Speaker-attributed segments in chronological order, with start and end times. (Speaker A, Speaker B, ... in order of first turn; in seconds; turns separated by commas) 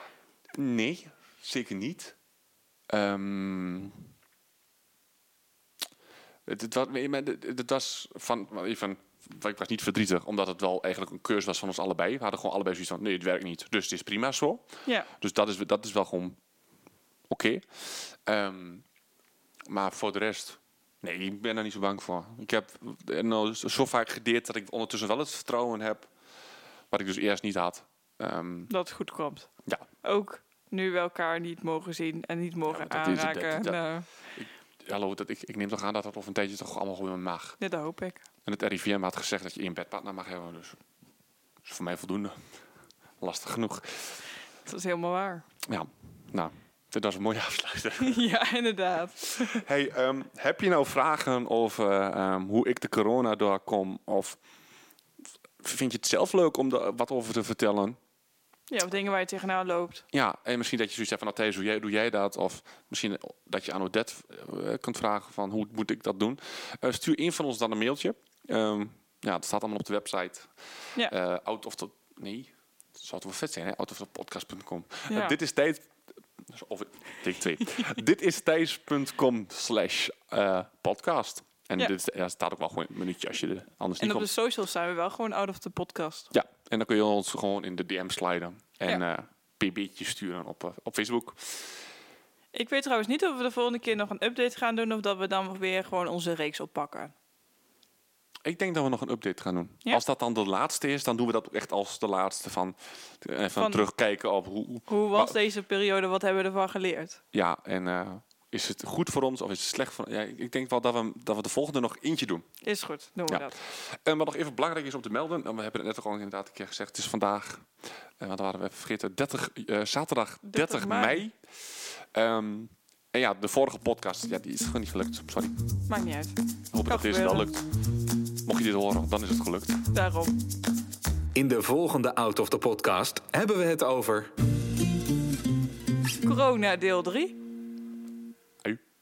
Speaker A: 0.5-2.2, Speaker A: 2.9-4.0, Speaker A: 6.5-16.4, Speaker A: 17.3-18.9, Speaker A: 19.7-26.1, Speaker A: 26.9-28.7, Speaker B: 28.7-29.5, Speaker B: 30.0-34.1, Speaker A: 32.7-33.8, Speaker A: 34.4-37.6, Speaker B: 37.6-38.2, Speaker A: 38.5-40.8, Speaker A: 41.6-42.4, Speaker A: 43.2-44.2, Speaker B: 44.6-45.5, Speaker A: 45.6-48.2, Speaker B: 48.0-49.6, Speaker A: 49.2-54.4, Speaker A: 55.6-58.0, Speaker B: 58.7-60.0, Speaker A: 60.1-75.9, Speaker B: 75.1-75.4, Speaker A: 76.5-84.3, Speaker B: 84.0-86.3, Speaker A: 86.3-91.8, Speaker B: 92.5-97.1, Speaker A: 98.5-105.4, Speaker B: 103.6-103.8, Speaker B: 104.9-107.2, Speaker A: 107.3-112.5, Speaker B: 112.6-113.5, Speaker A: 113.3-117.7, Speaker A: 118.2-121.4, Speaker B: 120.5-121.2, Speaker A: 122.1-125.6, Speaker B: 125.9-127.5, Speaker A: 126.7-127.7, Speaker A: 128.4-129.8, Speaker B: 129.9-130.4, Speaker C: 131.3-134.3, Speaker B: 136.2-137.4